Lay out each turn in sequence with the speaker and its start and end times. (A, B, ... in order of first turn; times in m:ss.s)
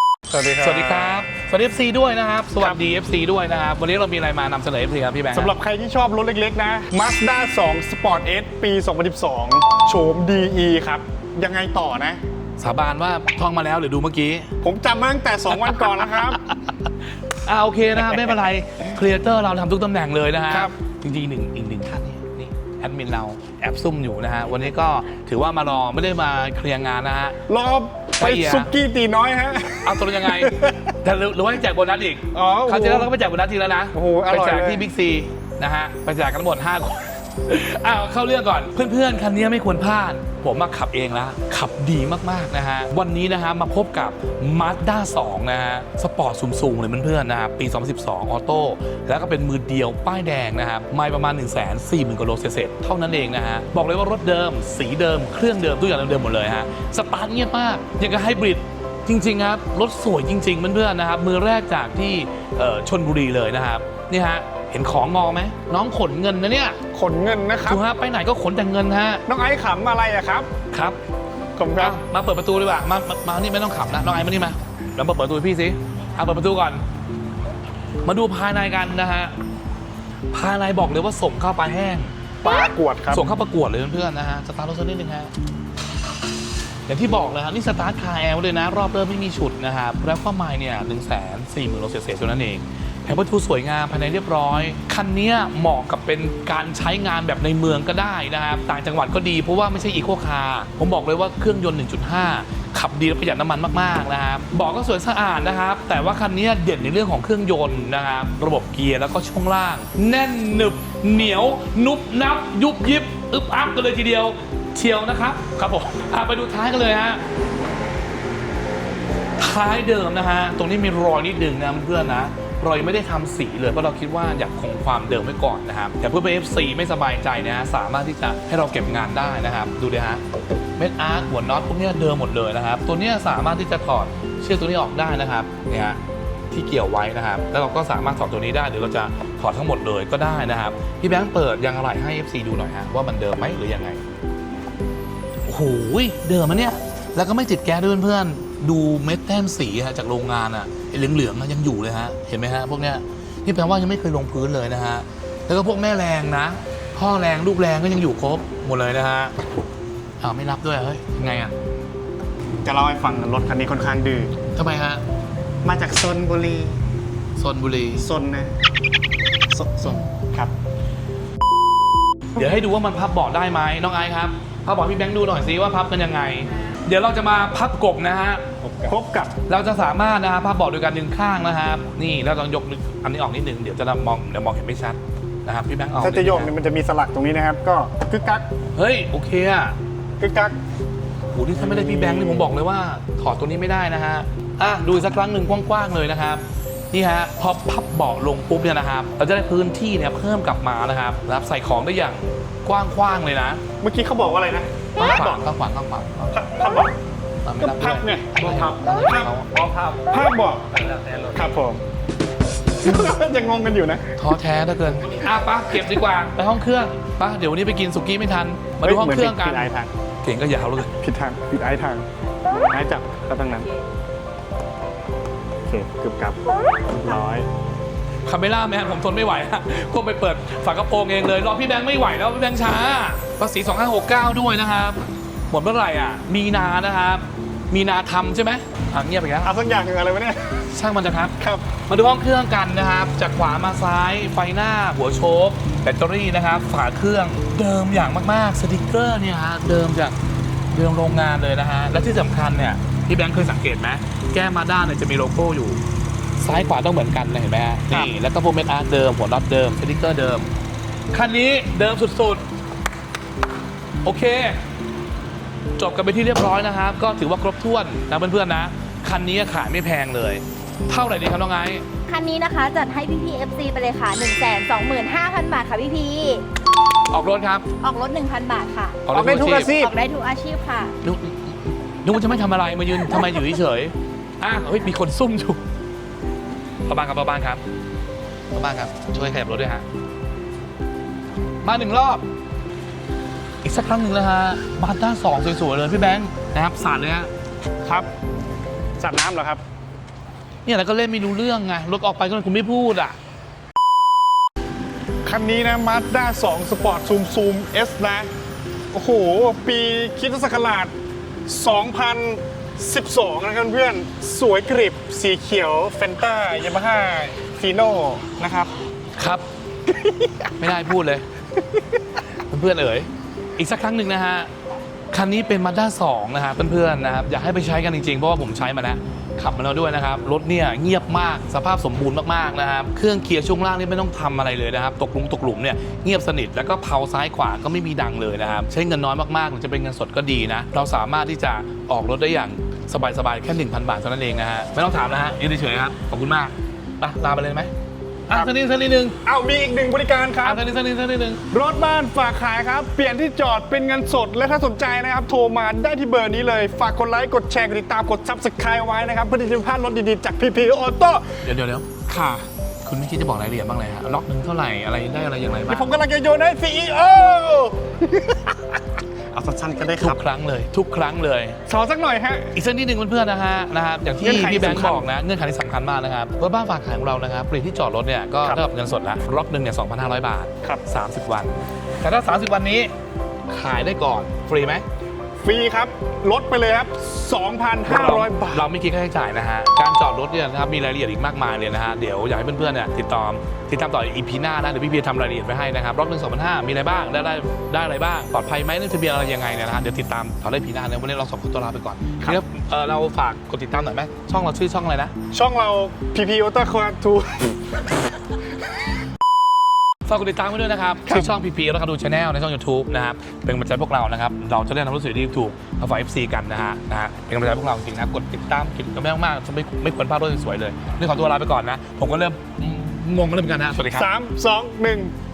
0:00.3-0:01.2 A
0:00.6-0:05.5 B
0:05.3-0:12.2 A
0:12.6-0:14.5 B
0:14.6-0:16.4 A
0:17.3-0:27.4 B
0:27.5-0:30.9 A
0:28.2-0:28.7 B
0:29.8-1:06.8 B
0:32.3-0:33.1 A
0:33.9-0:34.8 A
1:06.9-1:07.8 A
1:07.6-1:09.2 B
1:09.3-1:10.5 A
1:10.7-1:11.0 B
1:11.6-1:12.0 A
1:11.8-1:16.8 B
1:18.0-1:19.3 B
1:20.3-1:22.1 B
1:22.4-1:23.2 A
1:23.1-1:25.3 B
1:26.9-1:57.2 B
1:59.4-2:10.2 B
2:10.8-2:24.0 B
2:25.4-2:39.3 B
2:40.2-2:41.5 B
2:42.6-2:44.4 A
2:44.5-2:45.0 B
2:45.6-2:46.8 A
2:47.4-2:48.1 B
2:48.0-2:48.5 A
2:49.5-2:50.5 A
2:52.3-2:58.5 B
2:58.7-2:59.4 A
2:59.4-3:06.5 B
3:05.9-3:08.5 A
3:08.7-3:09.8 B
3:10.2-3:10.6 A
3:11.3-3:23.6 B
3:11.6-3:12.5 A
3:23.8-3:25.5 A
3:25.0-3:26.4 B
3:26.3-3:27.0 A
3:27.4-3:29.5 B
3:27.6-3:31.8 A
3:32.8-3:34.1 A
3:34.2-3:39.7 B
3:38.8-3:39.9 A
3:40.2-3:40.9 B
3:41.0-3:42.0 A
3:42.7-3:43.7 A
3:45.6-3:47.5 A
3:48.2-3:59.5 B
3:59.4-4:00.6 A
4:00.7-4:10.2 B
4:01.4-4:01.7 A
4:10.7-4:15.8 B
4:16.4-4:20.5 B
4:21.1-4:22.4 B
4:24.0-4:24.6 B
4:25.8-4:31.8 B
4:32.1-4:36.4 C
4:37.1-4:37.7 B
4:37.8-4:40.9 C
4:39.0-4:39.7 B
4:39.1-4:39.9 A
4:41.0-4:45.6 B
4:46.8-4:47.6 B
4:48.5-4:49.8 B
4:51.6-4:52.2 B
4:53.6-4:57.3 B
4:57.8-4:58.1 A
4:59.0-4:59.6 A
5:00.6-5:03.2 B
5:05.2-5:08.3 A
5:08.9-5:10.9 A
5:11.4-5:18.7 A
5:19.2-5:19.4 B
5:20.6-5:21.2 B
5:22.5-5:24.5 B
5:25.1-5:47.7 B
5:48.3-5:49.2 B
5:49.2-5:50.6 A
5:50.4-5:51.4 B
5:51.5-6:01.4 A
6:01.4-6:02.1 B
6:02.1-6:02.4 A
6:02.8-6:05.9 B
6:05.7-6:08.6 A
6:09.3-6:10.2 A
6:10.0-6:11.6 B
6:11.6-6:12.5 A
6:12.5-6:22.9 B
6:14.2-6:15.0 A
6:23.5-6:24.8 B
6:25.4-6:28.7 A
6:27.8-6:45.1 B
6:45.3-6:47.7 A
6:50.0-7:04.1 B
7:03.9-7:05.1 A